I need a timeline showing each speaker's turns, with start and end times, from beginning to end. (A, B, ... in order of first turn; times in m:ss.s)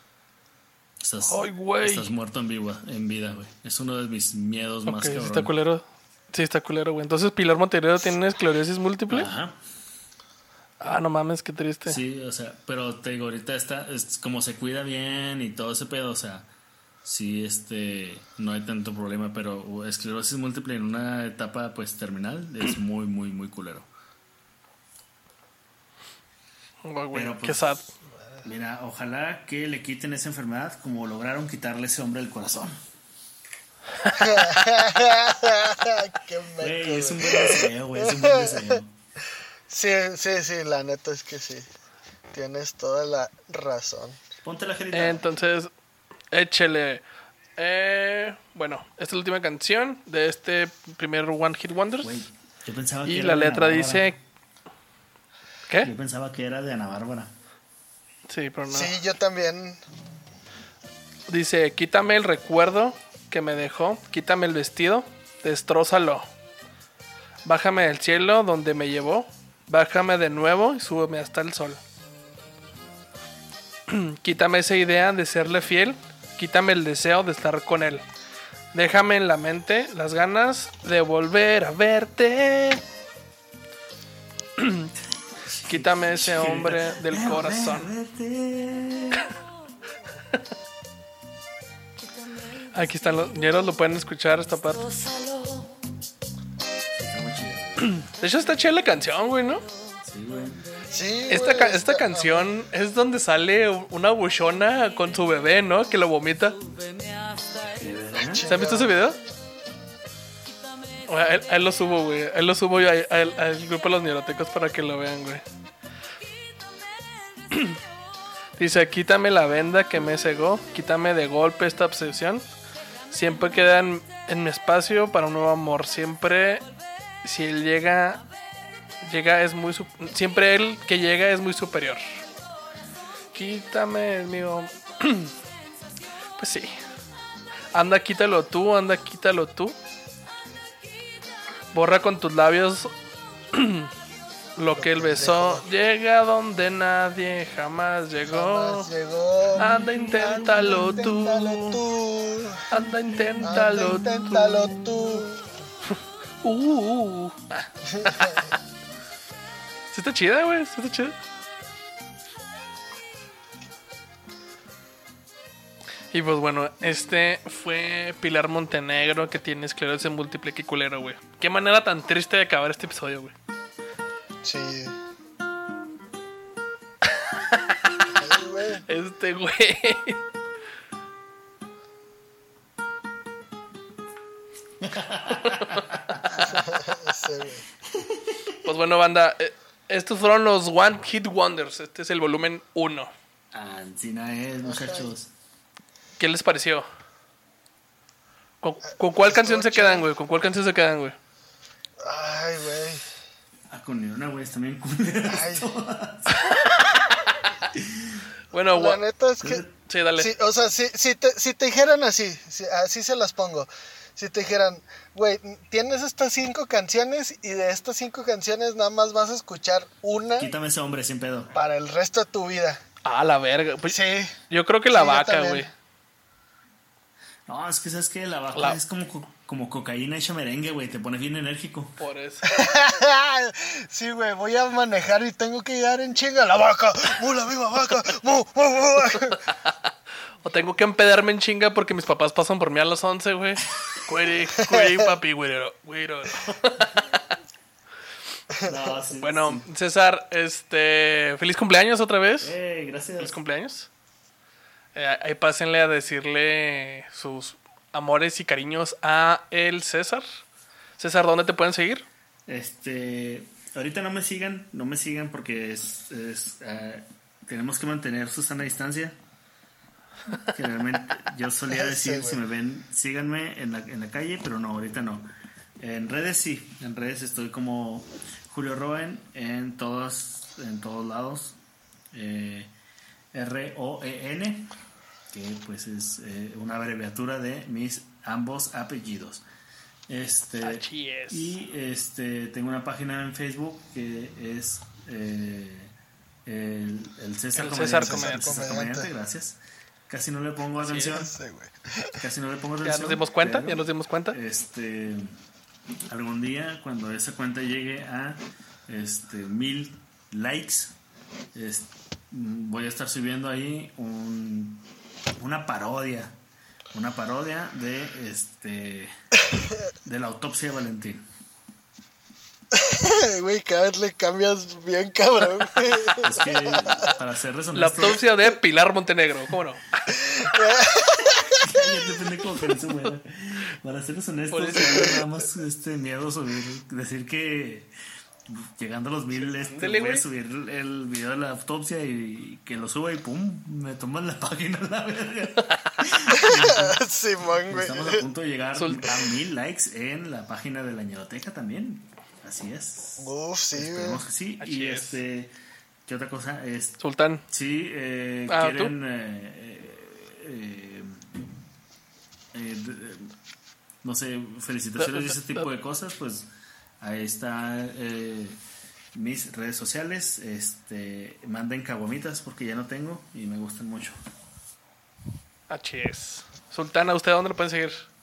0:01.0-0:05.5 A
0:01.2-0:02.1 B
0:04.9-0:09.3 B
0:09.1-0:09.6 A
0:10.8-0:12.0 B
0:11.9-0:16.5 A
0:17.0-0:23.9 A
0:26.8-0:27.9 B
0:27.1-0:27.9 A
0:28.4-0:32.8 A
0:34.1-0:38.8 C
0:36.6-0:38.9 A
0:39.7-0:41.7 C
0:42.3-0:44.2 C
0:44.4-0:45.3 A
0:44.9-0:45.7 B
0:46.3-0:47.0 B
0:47.6-0:52.2 B
0:52.0-0:54.2 A
0:53.0-0:54.2 B
0:55.8-0:57.3 A
0:58.3-0:58.9 B
0:58.7-0:59.8 C
1:01.3-1:06.3 B
1:07.4-1:11.8 B
1:13.9-1:18.0 B
1:18.7-1:22.8 B
1:24.6-1:24.9 B
1:25.4-1:29.3 A
1:25.7-1:27.9 B
1:32.7-1:34.9 B
1:37.0-1:38.1 A
1:37.8-1:39.6 B
1:40.0-1:40.6 A
1:40.9-1:42.5 C
1:41.3-1:46.6 B
1:47.8-1:48.5 A
1:48.2-1:49.0 C
1:48.5-1:49.2 B
1:51.1-1:55.4 B
1:57.5-1:57.8 B
1:58.6-2:02.5 B
2:03.1-2:06.6 B
2:07.2-2:08.2 B
2:09.0-2:12.0 B
2:13.3-2:15.3 B
2:16.4-2:16.8 B
2:17.7-2:19.8 B
2:21.7-2:22.9 B
2:23.5-2:23.9 B
2:24.6-2:28.9 B
2:24.8-2:25.6 C
2:28.3-2:32.7 C
2:29.6-2:31.8 B
2:32.7-2:34.7 B
2:33.4-2:35.5 C
2:36.4-2:38.4 B
2:37.9-2:38.4 C
2:39.9-2:41.2 B
2:46.1-2:53.4 B
2:54.4-2:55.0 C
2:58.2-2:58.9 C
2:58.9-3:00.2 B
3:04.8-3:06.6 A
3:06.5-3:07.6 C
3:08.6-3:13.1 B
3:13.5-3:15.3 A
3:14.6-3:15.1 C
3:16.2-3:16.9 B
3:18.6-3:21.2 B
3:19.2-3:20.1 C
3:22.0-3:23.1 C
3:23.7-3:26.7 A
3:25.3-3:25.7 C
3:27.7-3:28.2 A
3:28.5-3:29.0 B
3:28.7-3:29.6 C
3:29.4-3:29.7 A
3:29.9-3:30.3 B
3:30.2-3:40.5 C
3:40.4-3:41.5 A
3:41.5-3:42.8 C
3:43.0-3:44.0 B
3:43.9-3:44.4 C
3:44.5-3:45.7 B
3:44.9-3:45.7 C
3:47.5-3:52.0 A
3:52.0-3:52.4 B
3:52.4-3:59.4 C
4:00.4-4:07.0 B
4:04.6-4:05.1 C
4:08.6-4:09.7 A
4:09.2-4:12.5 B
4:12.4-4:13.4 A
4:13.2-4:13.9 B
4:15.0-4:20.2 B
4:21.0-4:22.1 B
4:22.5-4:29.2 A
4:30.4-4:41.6 A
4:31.7-4:32.4 C
4:42.1-4:42.7 A
4:43.3-4:44.7 A
4:45.3-4:49.4 A
4:50.1-4:55.9 A
4:50.6-4:51.6 B
4:56.5-5:01.4 A
4:57.6-4:58.6 B
4:58.0-4:59.1 C
5:00.8-5:01.2 B
5:01.2-5:02.2 C
5:02.2-5:05.4 A
5:02.8-5:04.4 B
5:06.1-5:11.0 A
5:11.5-5:16.4 A
5:16.9-5:19.1 A
5:20.0-5:21.2 A
5:22.7-5:27.1 C
5:26.2-5:28.2 A
5:27.8-5:30.0 B
5:30.2-5:31.8 C
5:31.6-5:37.9 A
5:34.5-5:35.2 B
5:38.5-5:47.0 A
5:39.4-5:40.3 B
5:46.3-5:48.2 C
5:47.7-5:55.5 A
5:48.8-5:49.1 B
5:53.2-5:54.2 C
5:54.6-5:55.2 B
5:56.1-6:01.3 A
5:57.0-5:57.4 B
5:58.5-5:58.9 B
6:02.5-6:03.3 A
6:04.0-6:06.5 A
6:05.0-6:05.7 B
6:07.0-6:08.6 A
6:09.1-6:14.2 A
6:15.7-6:18.1 B